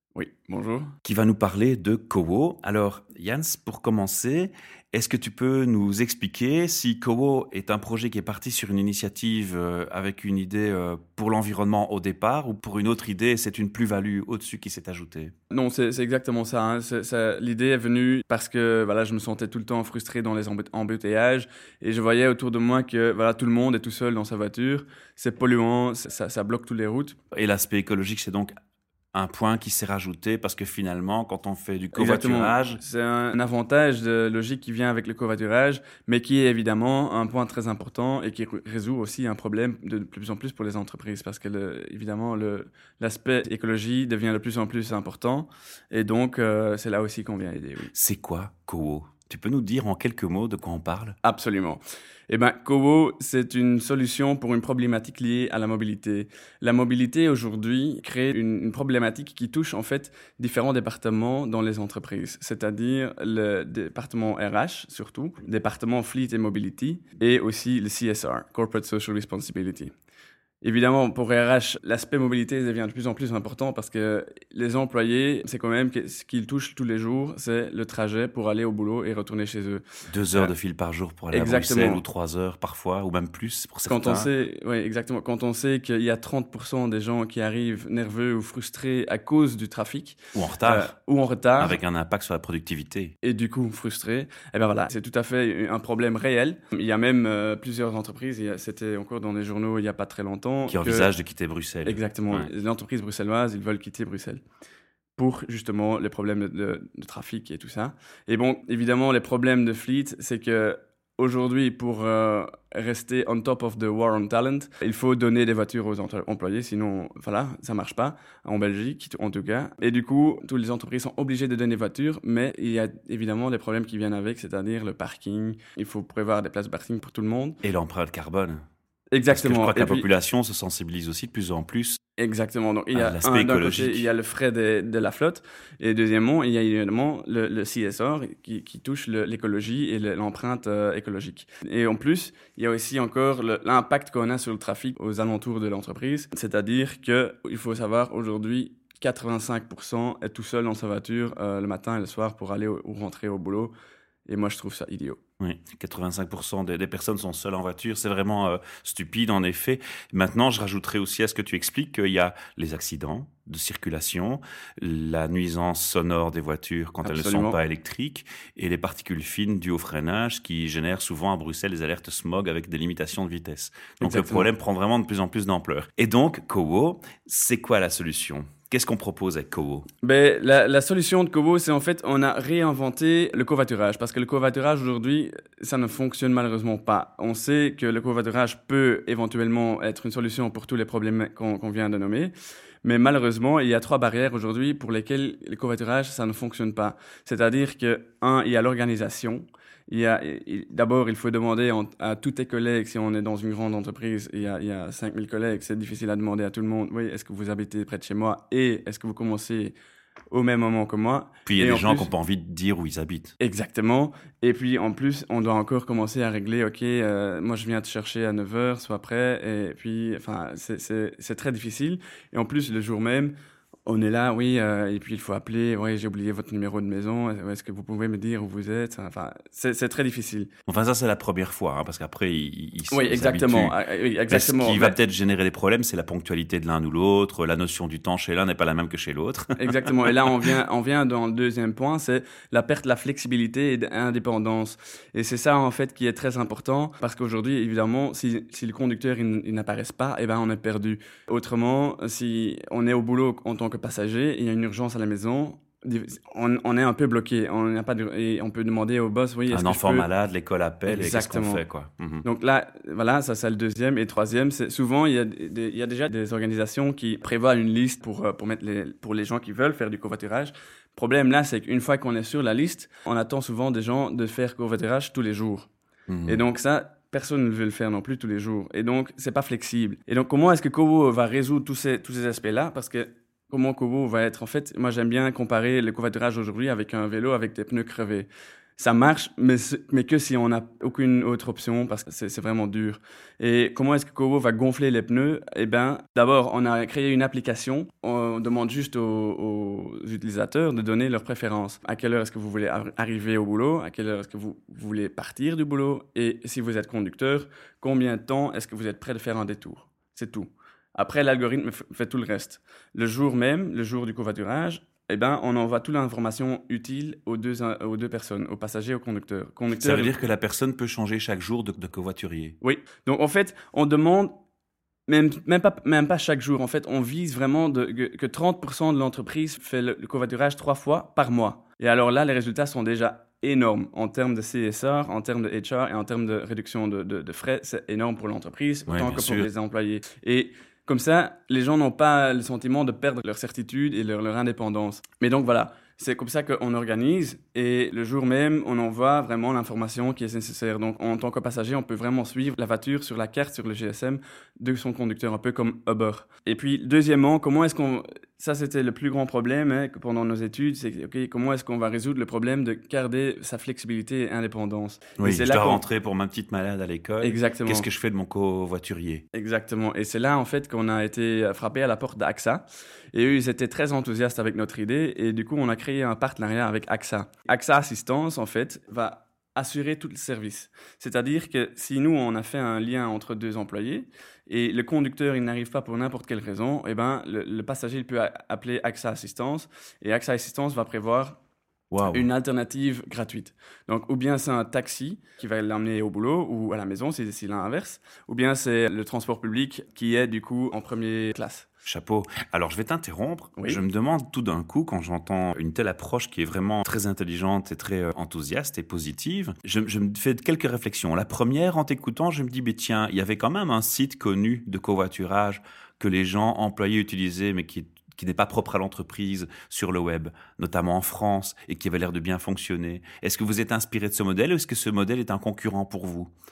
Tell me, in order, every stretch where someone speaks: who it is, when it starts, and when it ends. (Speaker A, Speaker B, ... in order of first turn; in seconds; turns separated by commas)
Speaker A: 0.1-0.9, Speaker B: 1.1-15.3, Speaker A: 15.5-27.2, Speaker B: 27.3-28.5, Speaker B: 29.1-32.8, Speaker A: 31.9-47.9, Speaker B: 47.9-51.2, Speaker A: 51.2-69.9, Speaker A: 70.6-79.8, Speaker B: 80.1-84.3, Speaker A: 81.3-82.0, Speaker A: 83.9-91.8, Speaker B: 90.3-90.9, Speaker B: 91.6-93.2, Speaker A: 93.2-101.1, Speaker B: 100.7-102.5, Speaker A: 101.8-104.4, Speaker A: 105.2-127.6, Speaker B: 127.6-128.6, Speaker A: 129.1-130.1, Speaker B: 129.3-132.0, Speaker A: 132.2-153.7, Speaker B: 132.9-134.1, Speaker A: 154.3-155.2, Speaker B: 155.4-179.9, Speaker A: 167.0-167.6, Speaker A: 174.0-174.5, Speaker A: 180.0-192.3, Speaker A: 192.8-209.8, Speaker A: 210.3-212.1, Speaker B: 211.5-213.3, Speaker A: 213.4-223.3, Speaker A: 223.9-230.5, Speaker B: 230.7-233.8, Speaker A: 232.9-235.0, Speaker B: 234.3-240.5, Speaker A: 239.6-260.1, Speaker B: 259.5-262.2, Speaker A: 260.9-261.6, Speaker A: 262.2-275.7, Speaker B: 276.1-276.4, Speaker A: 276.2-320.1, Speaker B: 319.8-322.6, Speaker A: 322.6-324.4, Speaker A: 325.1-365.8, Speaker B: 338.9-339.5, Speaker B: 365.2-369.2, Speaker A: 367.2-367.9, Speaker A: 369.3-391.4, Speaker B: 391.9-392.3, Speaker A: 392.1-401.7, Speaker B: 401.9-426.3, Speaker A: 403.6-403.8